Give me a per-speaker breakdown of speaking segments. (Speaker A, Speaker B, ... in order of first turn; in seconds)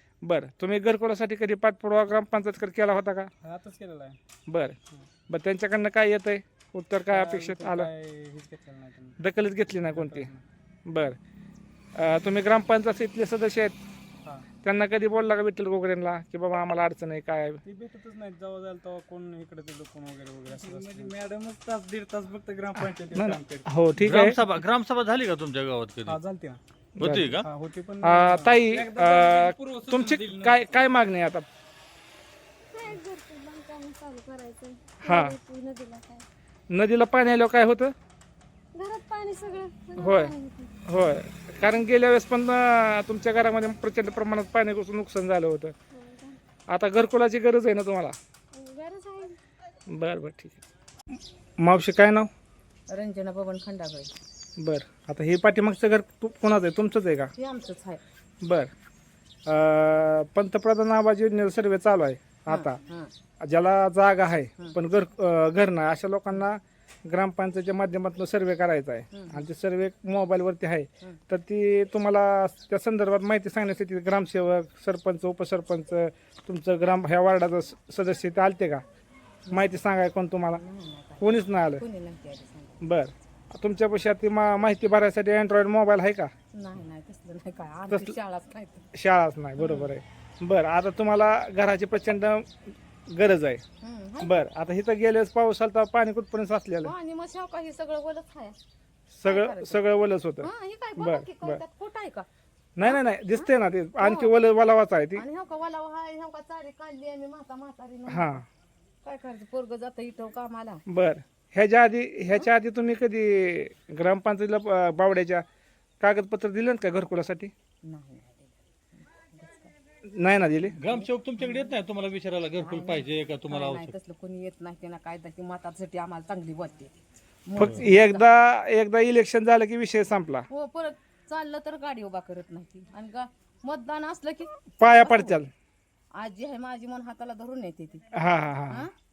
Speaker A: 0.2-3.3, 4.5-4.8, 5.3-7.9, 9.2-10.3, 10.9-11.2, 11.9-13.8, 14.6-17.6, 22.8-24.4, 27.0-27.3, 28.0-31.4, 35.0-35.4, 36.7-37.9, 40.0-40.3, 40.9-45.7, 46.7-48.1, 49.9-50.6, 51.6-52.3, 54.6-57.3, 58.4-58.7, 59.5-62.8, 63.4-78.8, 79.5-80.6, 81.2-81.8, 82.8-86.3, 87.9-88.2, 88.9-93.6, 94.2-96.9, 99.1-101.6, 102.8-105.2, 108.1-108.5, 110.9-115.4, 116.0-117.5, 120.1-120.8, 127.6-130.4, 134.8-135.5, 138.1-138.8
Speaker B: 3.4-4.2, 7.1-9.2, 9.9-10.4, 17.6-23.6, 26.0-26.6, 27.3-30.8
Speaker C: 24.0-26.2, 27.0-27.5, 120.8-123.9, 127.6-127.9
Speaker D: 32.7-36.2, 38.8-40.7, 45.9-46.4, 48.5-49.3
Speaker E: 48.7-49.2, 52.9-54.1, 57.4-58.0, 62.5-63.1, 69.1-69.4, 79.5-79.8, 80.5-82.8, 86.5-88.9, 89.6-89.9, 93.8-94.3, 96.8-98.6, 99.2-99.8, 100.4-102.3, 102.8-103.5, 104.0-104.3, 105.1-108.4, 109.0-110.8, 117.8-119.7, 120.9-121.8, 122.6-128.3, 130.5-135.4, 136.1-138.1